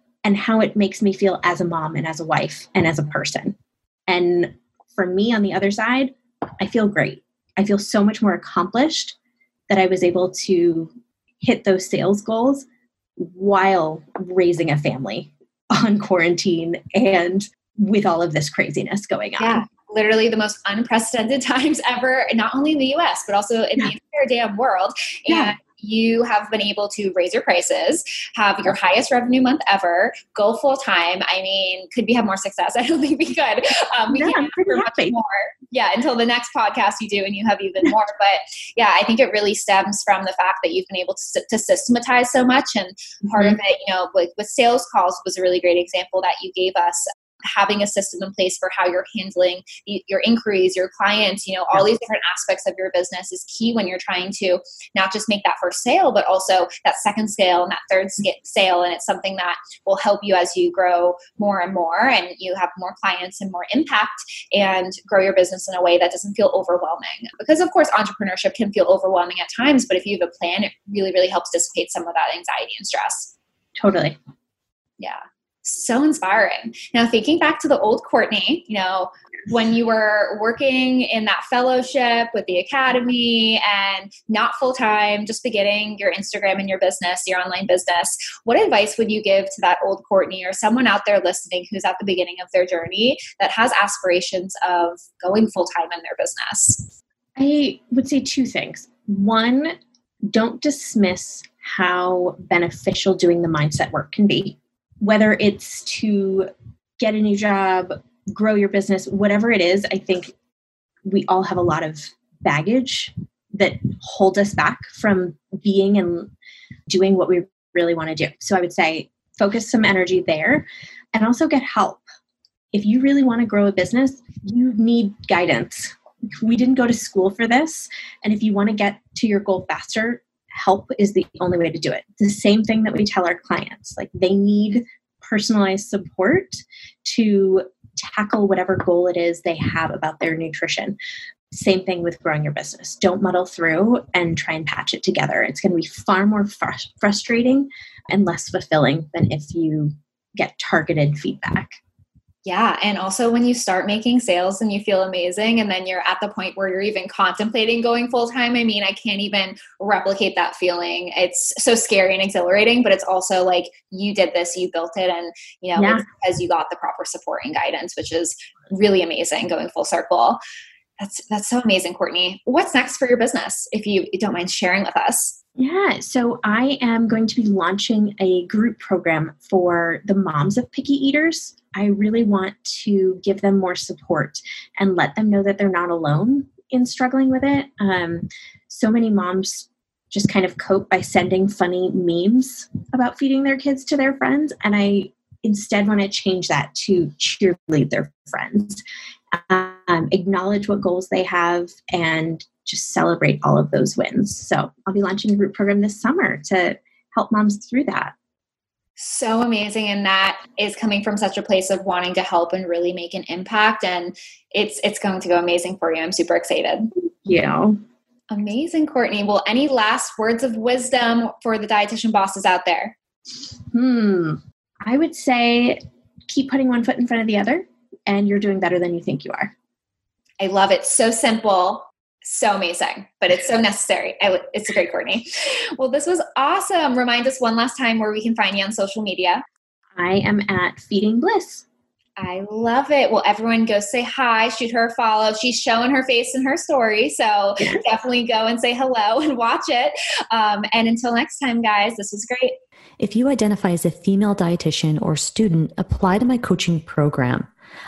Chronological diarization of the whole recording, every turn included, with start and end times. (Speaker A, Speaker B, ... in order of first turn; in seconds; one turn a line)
Speaker A: 0.2-3.5
Speaker A: 4.1-9.2
Speaker A: 9.7-19.6
Speaker B: 19.4-73.3
Speaker A: 25.3-25.5
Speaker A: 34.1-35.2
Speaker A: 43.3-43.6
Speaker A: 73.8-74.2
Speaker B: 75.0-96.9
Speaker A: 97.4-99.7
Speaker A: 100.3-110.3
Speaker A: 111.0-116.3
Speaker A: 116.9-122.0
Speaker A: 122.7-141.0
Speaker A: 141.5-151.8
Speaker B: 152.4-170.4
Speaker A: 165.8-166.0
Speaker B: 171.0-175.4
Speaker A: 175.6-208.1
Speaker B: 209.0-216.9
Speaker A: 217.2-217.8
Speaker B: 218.3-222.9
Speaker A: 223.7-229.5
Speaker B: 230.4-239.4
Speaker A: 239.9-241.7
Speaker B: 242.2-252.6
Speaker C: 253.0-257.5